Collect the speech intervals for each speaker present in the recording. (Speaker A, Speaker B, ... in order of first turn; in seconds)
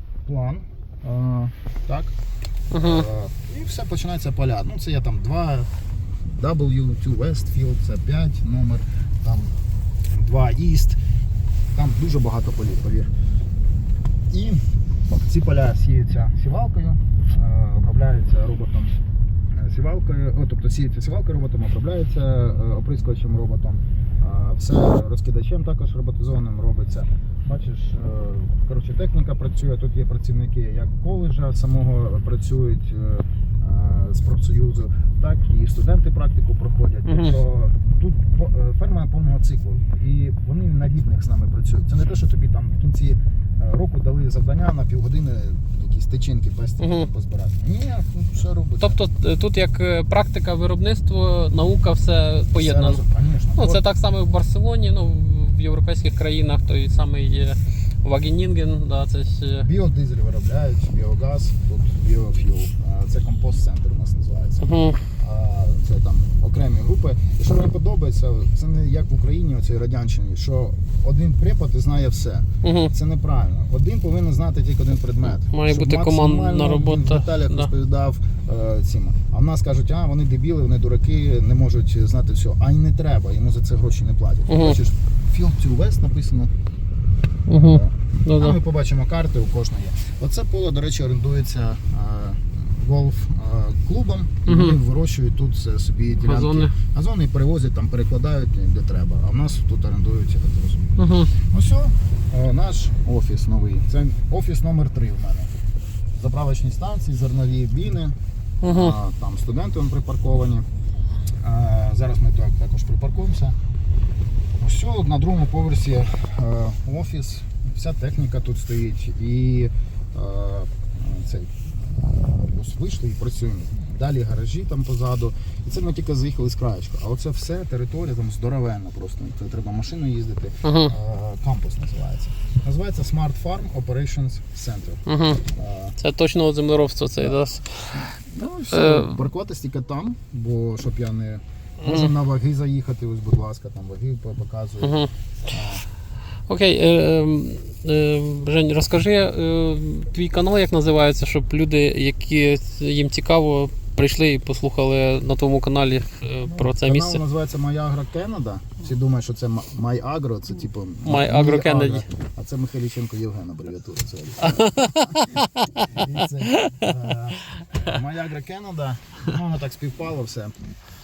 Speaker A: 0.3-2.1, 2.7-5.7, 6.2-9.6, 10.1-11.0, 11.7-13.1, 14.3-19.0, 19.5-49.0, 52.5-53.8, 59.6-86.5, 87.6-105.5, 106.2-110.7, 111.4-113.6, 114.6-136.0, 137.9-145.9, 156.4-165.2, 165.9-170.5
Speaker B: 2.7-3.1, 37.1-37.4, 46.8-47.1, 48.8-53.0, 53.6-59.7, 64.6-65.0, 72.6-72.9, 75.4-77.7, 84.5-84.8, 87.5-88.6, 94.5-94.8, 96.2-96.8, 101.0-101.3, 108.6-109.0, 130.6-130.9, 135.1-135.5, 136.0-138.1, 138.7-139.2, 141.8-142.1, 144.8-145.1, 146.5-157.2, 161.1-162.0, 164.4-166.9